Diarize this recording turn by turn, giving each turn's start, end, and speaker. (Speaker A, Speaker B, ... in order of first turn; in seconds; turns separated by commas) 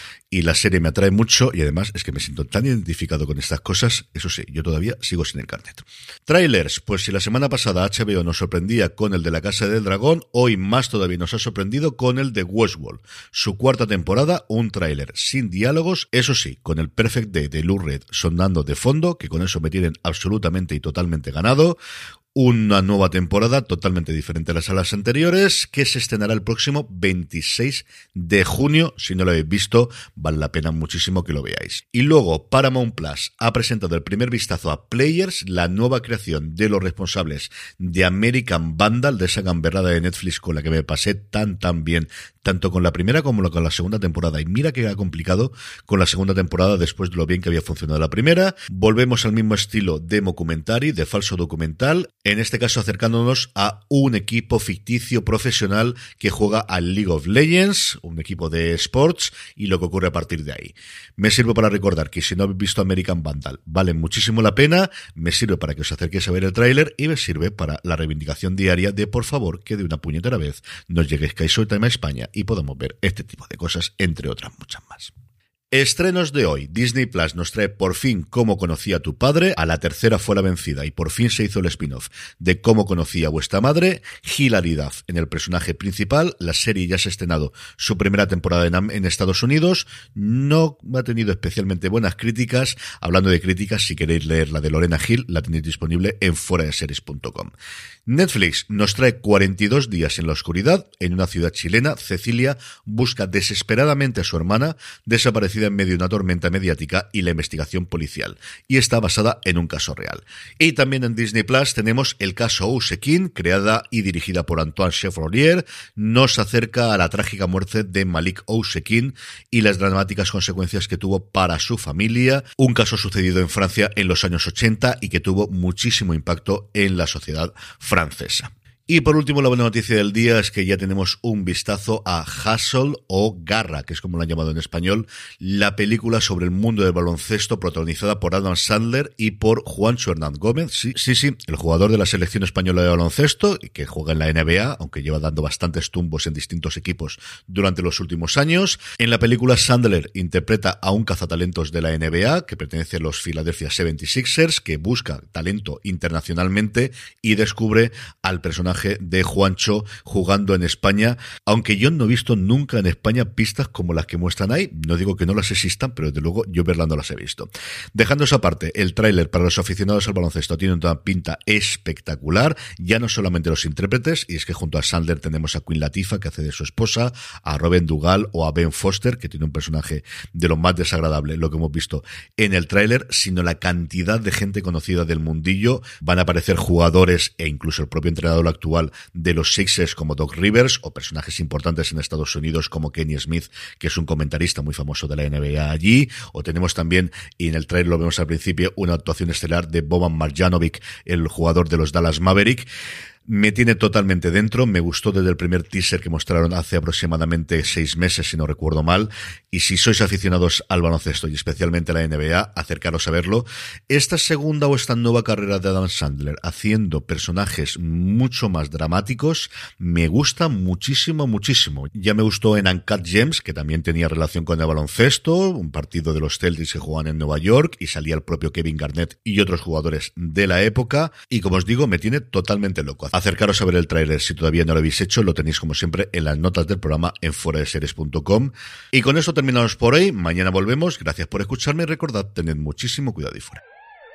Speaker A: 0.3-21.8, Speaker A: 22.4-75.1, Speaker A: 75.7-97.5, Speaker A: 98.1-202.7, Speaker A: 203.3-243.6